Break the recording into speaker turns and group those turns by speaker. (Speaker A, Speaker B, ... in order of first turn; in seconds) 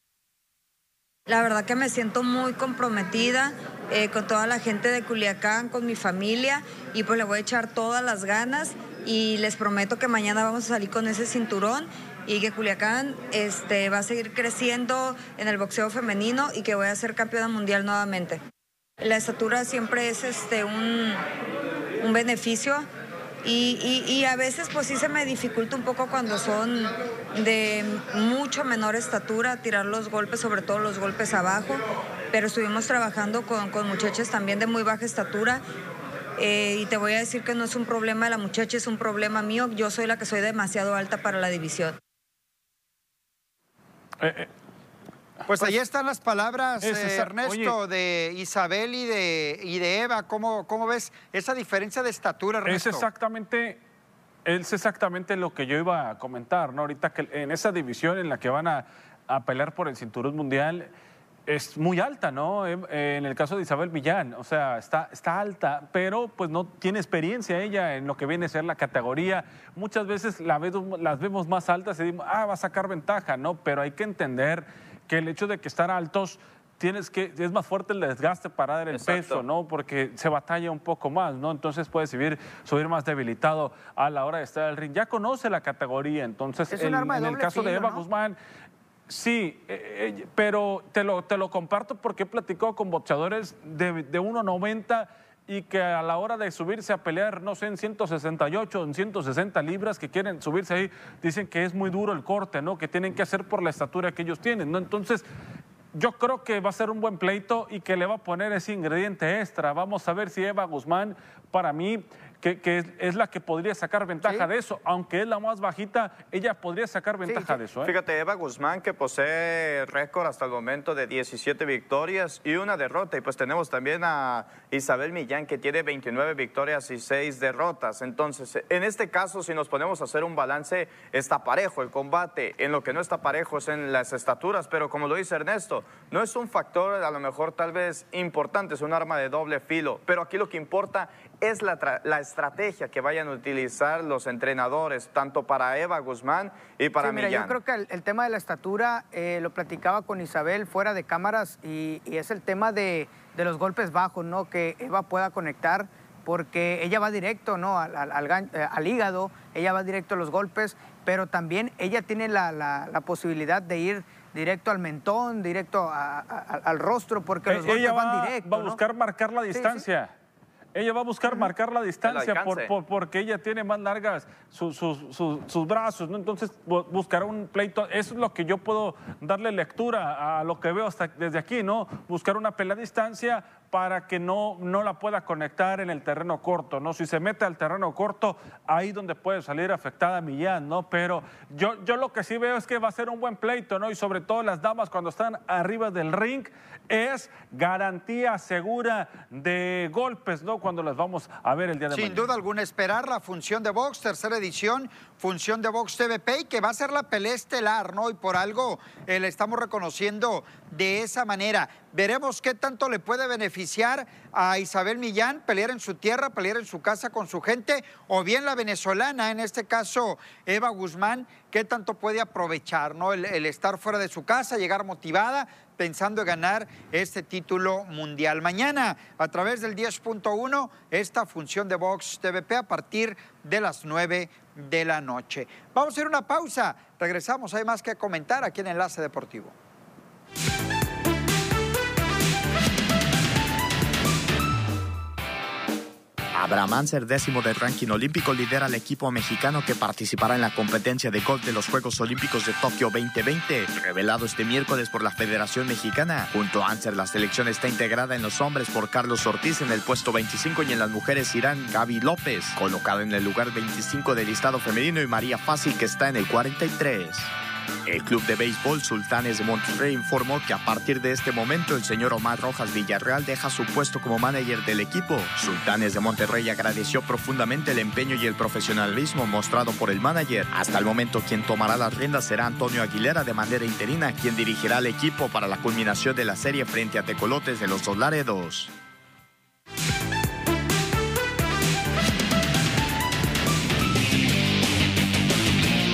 Speaker A: 1.3-18.4, 19.0-21.2, 22.0-22.9, 23.4-35.6, 36.4-42.0
Speaker B: 44.2-44.5, 46.8-47.7, 52.6-53.8, 54.5-60.9, 61.5-88.3, 89.1-105.2, 105.9-117.9, 167.5-170.1, 170.7-202.3
Speaker C: 45.5-53.0, 201.9-239.5
Speaker D: 78.9-79.4, 117.8-147.6, 172.0-172.7, 283.1-288.4
Speaker E: 86.7-88.0, 114.2-114.5, 117.2-117.6, 147.0-168.8, 169.5-169.8
Speaker F: 246.3-267.3, 267.9-288.7